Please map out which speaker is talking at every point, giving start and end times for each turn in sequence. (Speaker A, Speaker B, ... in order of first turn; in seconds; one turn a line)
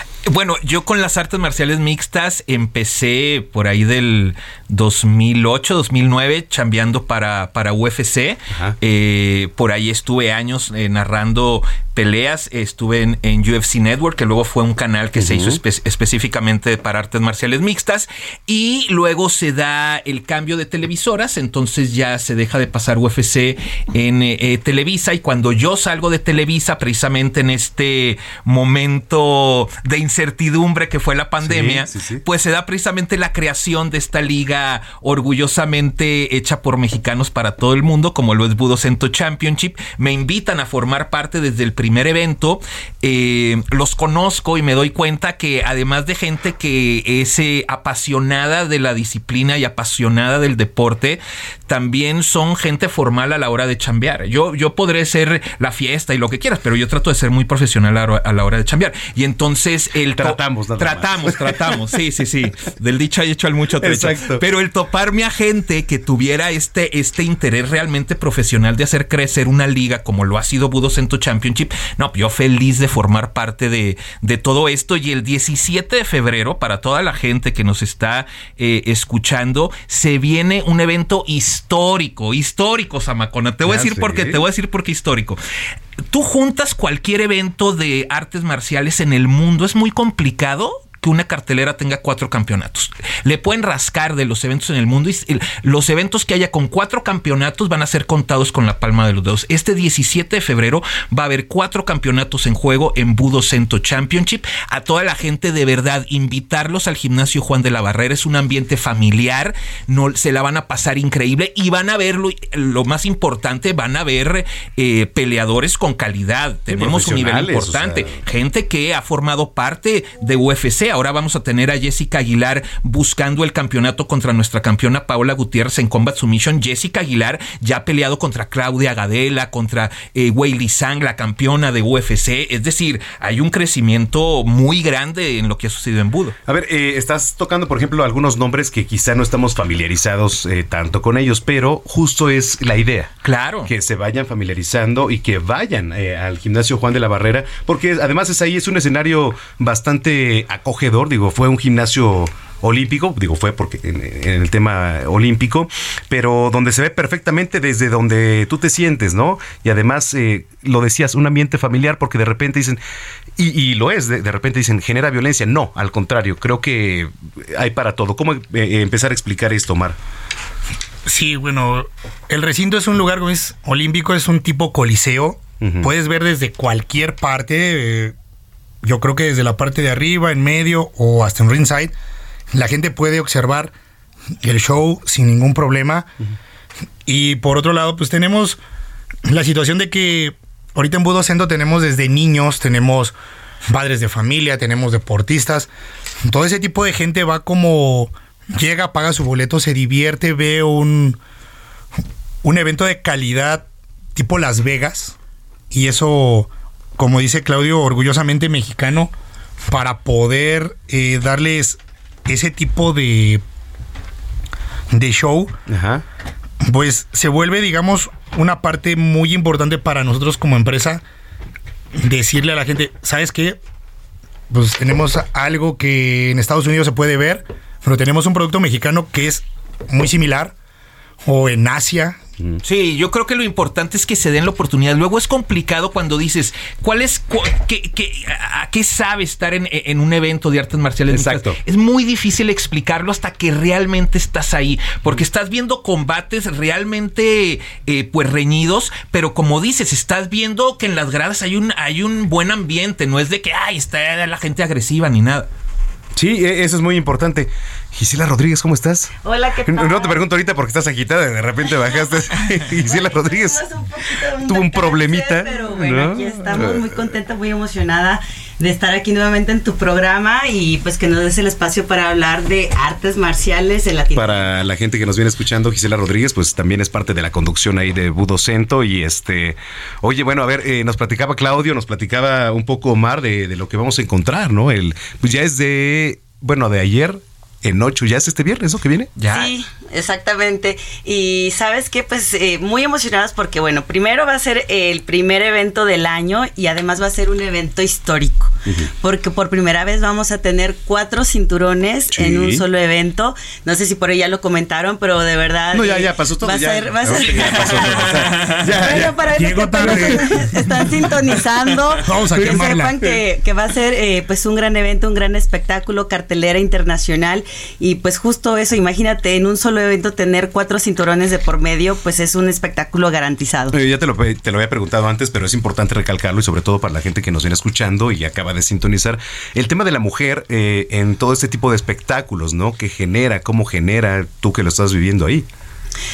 Speaker A: 0.2-85.4
Speaker B: 15.2-15.6
Speaker B: 31.4-32.2
Speaker B: 60.1-61.5
Speaker B: 63.8-64.4
Speaker B: 83.6-84.4
Speaker A: 86.1-136.3
Speaker B: 116.7-118.2
Speaker B: 136.4-143.1
Speaker A: 143.2-143.7
Speaker B: 143.6-162.8
Speaker B: 163.4-169.9
Speaker C: 171.1-178.1
Speaker B: 175.6-175.9
Speaker C: 178.8-181.9
Speaker C: 182.5-183.7
Speaker C: 184.4-186.1
Speaker C: 187.1-188.6
Speaker C: 189.3-193.1
Speaker C: 193.7-195.7
Speaker C: 196.2-201.2
Speaker C: 202.4-205.2
Speaker C: 205.7-209.1
Speaker C: 209.7-213.4
Speaker C: 214.9-215.5
Speaker B: 215.7-216.0
Speaker C: 216.7-221.0
Speaker C: 222.0-223.6
Speaker C: 224.5-230.5
Speaker C: 231.2-232.2
Speaker A: 232.6-255.5
Speaker B: 241.1-241.6
Speaker B: 256.1-263.6
Speaker D: 259.2-260.2
Speaker D: 262.8-274.4
Speaker B: 264.4-267.1
Speaker B: 274.1-289.1
Speaker A: 289.2-289.5
Speaker D: 289.3-307.6
Speaker B: 302.1-302.7
Speaker B: 305.7-309.2
Speaker A: 307.4-308.5
Speaker D: 308.8-323.7
Speaker C: 309.3-310.3
Speaker C: 312.0-313.0
Speaker B: 323.7-335.4